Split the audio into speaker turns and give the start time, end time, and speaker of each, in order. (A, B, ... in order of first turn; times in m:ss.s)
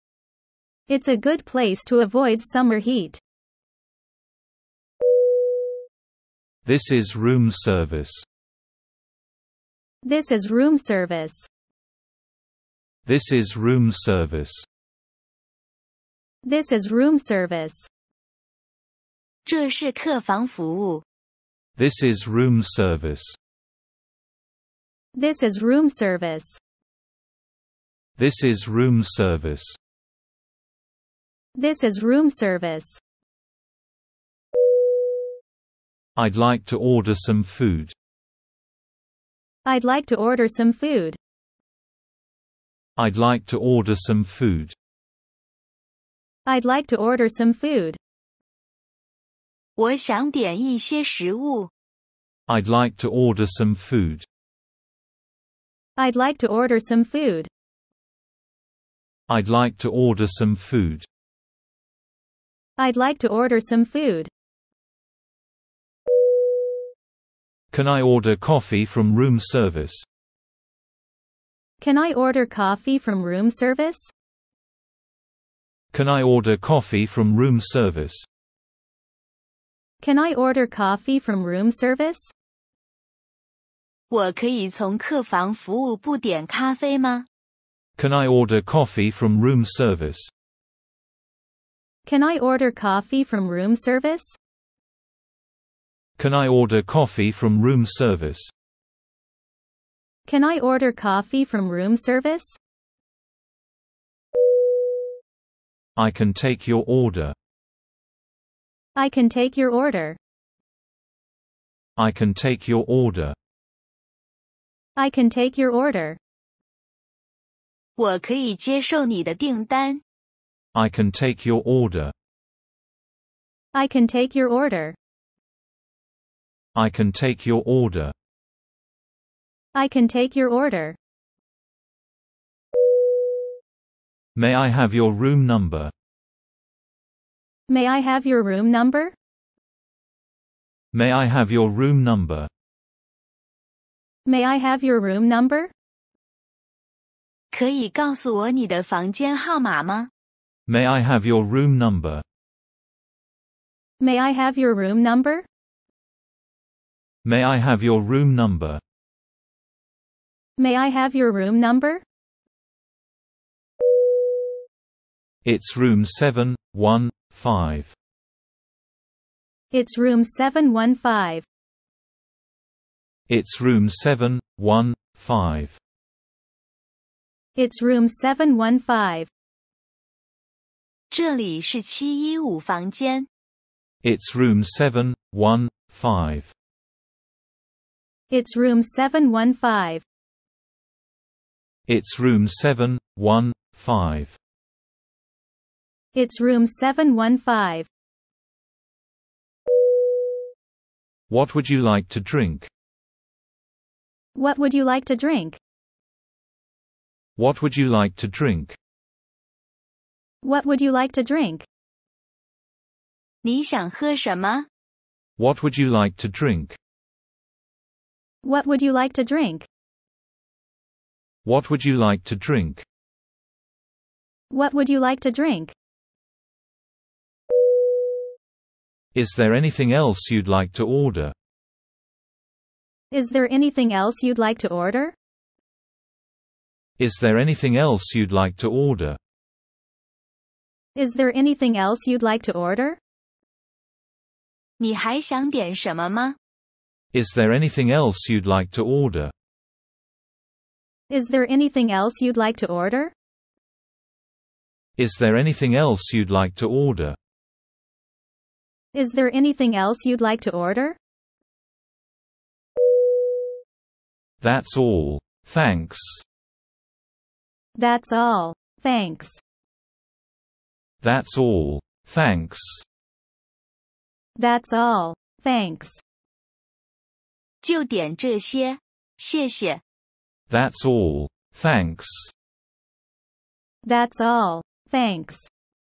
0:00.9-0:03.2 A
0:06.6-0:08.2 B
0:10.0-0:11.5 A
0:13.0-0:14.6 B
0:16.4-0:17.9 A
0:19.4-0:21.0 C
0:21.8-0:23.4 B
0:25.1-0:26.6 A
0:28.2-0:29.8 B
0:31.5-0:33.0 A
0:36.2-0:37.9 B
0:39.6-0:41.2 A
0:43.0-0:44.7 B
0:46.4-0:48.0 A
0:49.8-0:51.7 C
0:52.5-0:54.2 B
0:56.0-0:57.5 A
0:59.3-1:01.1 B
1:02.8-1:04.3 A
1:07.7-1:10.0 B
1:11.8-1:14.1 A
1:15.9-1:18.2 B
1:20.0-1:22.3 A
1:24.1-1:27.2 C
1:28.0-1:30.3 B
1:32.0-1:34.4 A
1:36.2-1:38.5 B
1:40.2-1:42.6 A
1:46.0-1:47.3 B
1:48.9-1:50.2 A
1:52.0-1:53.4 B
1:55.0-1:56.2 A
1:58.0-2:00.0 C
2:00.7-2:02.1 B
2:03.7-2:05.0 A
2:06.7-2:08.1 B
2:09.7-2:11.0 A
2:14.3-2:15.9 B
2:17.7-2:19.1 A
2:20.9-2:22.5 B
2:24.2-2:25.7 A
2:27.5-2:30.1 C
2:30.7-2:32.2 B
2:34.0-2:35.5 A
2:37.2-2:38.8 B
2:40.6-2:42.0 A
2:45.4-2:47.9 B
2:49.7-2:51.4 A
2:53.3-2:55.8 B
2:57.6-2:59.3 A
3:01.1-3:03.3 C
3:04.0-3:06.5 B
3:08.3-3:10.0 A
3:11.9-3:14.4 B
3:16.1-3:17.9 A
3:21.3-3:22.7 B
3:24.3-3:25.6 A
3:27.4-3:28.8 B
3:30.4-3:31.7 A
3:33.4-3:34.7 C
3:35.4-3:36.8 B
3:38.4-3:39.7 A
3:41.4-3:42.8 B
3:44.5-3:45.7 A
3:49.1-3:51.3 B
3:53.1-3:55.1 A
3:57.0-3:59.2 B
4:00.9-4:03.0 A
4:04.8-4:06.4 C
4:07.1-4:09.3 B
4:11.1-4:13.1 A
4:15.0-4:17.2 B
4:18.9-4:21.0 A
4:24.4-4:26.2 B
4:27.7-4:29.4 A
4:31.0-4:32.8 B
4:34.4-4:36.0 A
4:37.6-4:39.8 C
4:40.5-4:42.3 B
4:43.8-4:45.5 A